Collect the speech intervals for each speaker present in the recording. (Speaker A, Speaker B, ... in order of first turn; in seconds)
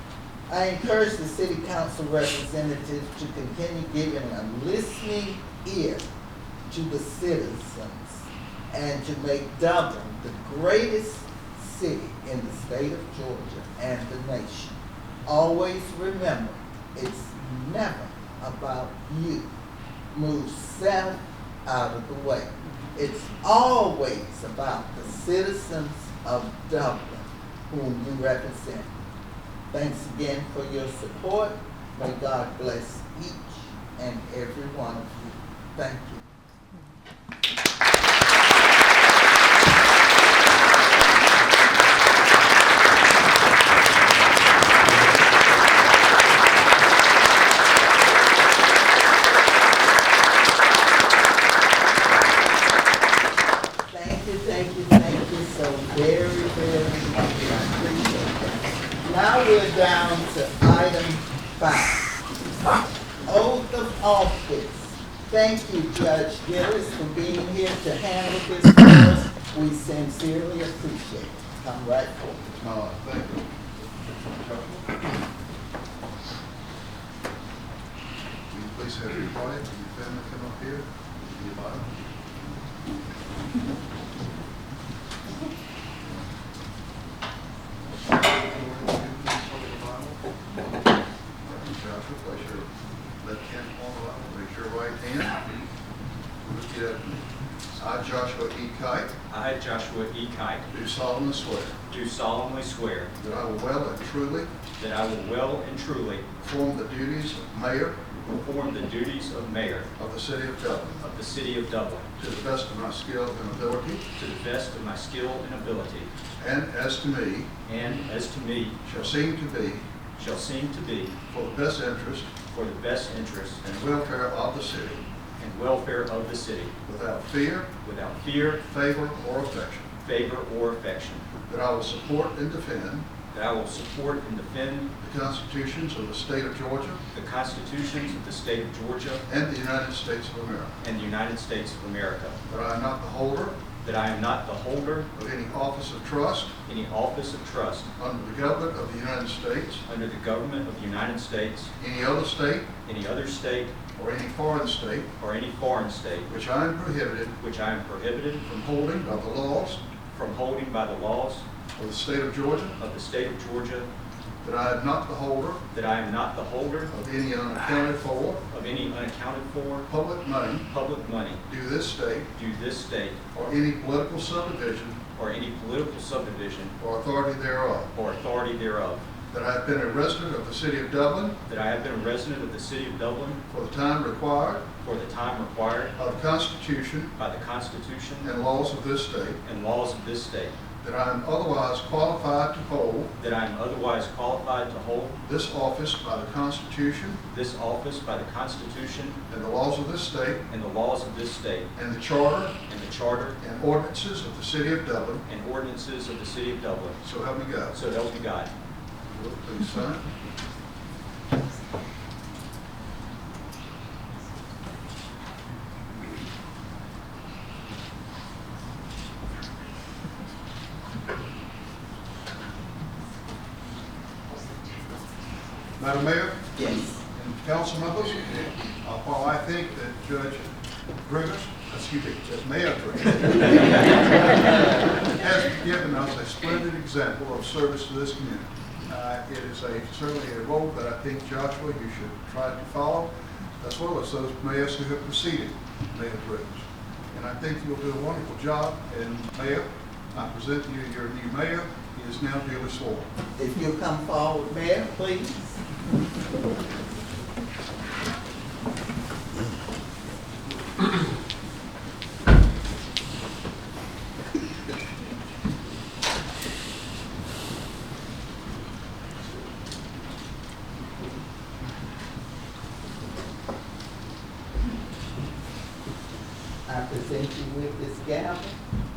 Speaker A: 0.5-6.0, 6.7-19.5, 20.1-28.9, 29.7-36.2, 53.9-62.2, 63.2-72.4, 226.6-227.0, 253.4-255.6, 276.6-278.6
Speaker B: 72.5-73.5, 74.3-74.9, 78.5-81.9, 88.1-90.2, 91.4-92.7, 93.2-95.4, 96.4-99.1, 100.7-101.8, 103.2-104.5, 106.4-108.0, 110.0-111.0, 112.2-114.0, 116.4-117.5, 118.8-119.8, 121.3-122.3, 123.6-125.0, 126.8-127.7, 128.6-129.9, 131.5-133.1, 135.0-137.0, 139.3-140.7, 142.5-143.6, 145.1-146.5, 148.0-149.8, 151.8-152.7, 153.9-155.1, 156.3-157.4, 158.4-159.8, 161.8-162.8, 164.4-165.7, 166.9-168.4, 169.9-170.7, 171.5-172.3, 173.3-175.0, 176.8-177.9, 179.3-181.4, 183.5-184.7, 185.9-187.2, 188.2-189.4, 190.8-193.1, 195.2-197.2, 199.3-200.4, 201.8-202.6, 203.4-205.2, 207.0-207.8, 209.1-210.1, 225.8-230.5, 231.0-234.0, 235.0-253.1
Speaker C: 99.3-100.7, 101.9-103.1, 104.8-106.3, 108.3-109.9, 111.0-112.1, 114.2-116.1, 117.7-118.8, 120.2-121.1, 122.5-123.6, 125.4-126.7, 127.8-128.6, 130.0-131.3, 133.3-134.9, 137.1-139.2, 140.8-142.4, 143.8-145.1, 146.7-147.9, 149.8-151.7, 152.8-153.7, 155.2-156.3, 157.4-158.4, 160.1-161.4, 162.8-163.9, 165.7-166.9, 168.5-169.9, 170.7-171.4, 172.3-173.2, 175.2-176.7, 177.9-179.0, 181.5-183.4, 184.8-185.9, 187.2-188.3, 189.4-190.5, 193.2-195.2, 197.3-199.2, 200.5-201.7, 202.7-203.4, 205.2-207.0, 207.7-208.5